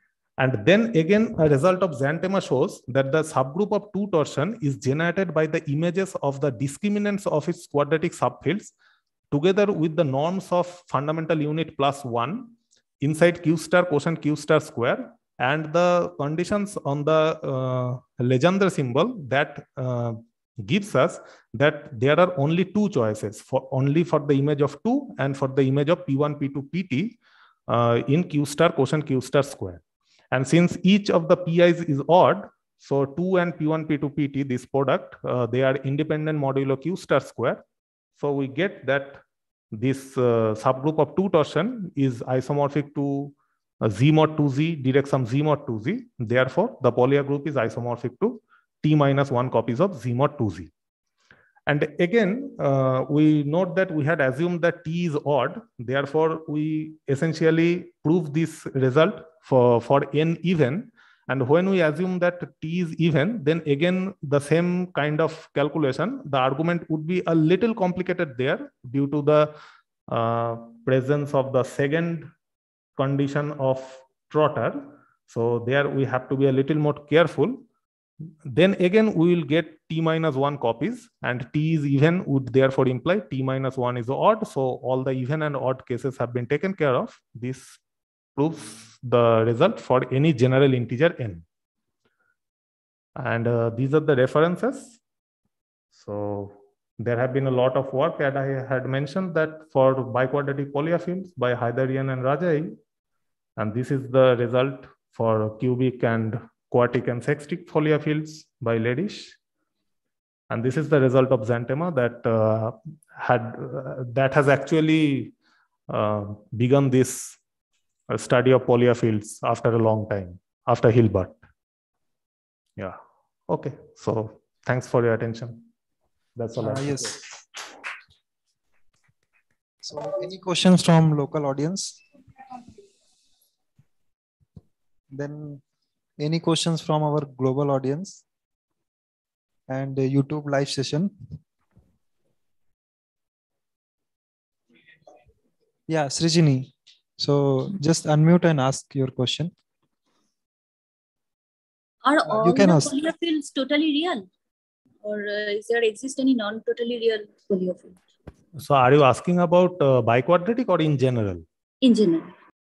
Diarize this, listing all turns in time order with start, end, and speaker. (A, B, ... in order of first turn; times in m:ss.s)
0:00.4-0:08.7 A
0:09.3-0:27.2 A
0:27.7-0:29.8 A
0:30.3-0:37.6 A
0:38.1-0:39.2 A
0:39.7-0:50.7 A
0:51.7-1:09.5 A
1:10.1-1:12.3 A
1:13.0-1:17.6 A
1:18.4-1:27.8 A
1:28.3-1:31.4 A
1:33.2-1:35.0 A
1:35.9-1:42.7 A
1:43.6-1:49.4 A
1:50.5-1:55.3 A
1:55.9-1:57.4 A
1:58.1-2:01.4 A
2:03.5-2:05.6 A
2:06.4-2:07.3 A
2:06.6-2:07.2 B
2:09.8-2:12.0 B
2:15.1-2:15.6 B
2:16.2-2:18.2 B
2:19.7-2:21.1 B
2:25.9-2:29.5 B
2:32.0-2:34.3 C
2:32.3-2:32.9 B
2:35.0-2:38.0 C
2:38.6-2:41.4 A
2:41.8-2:42.3 C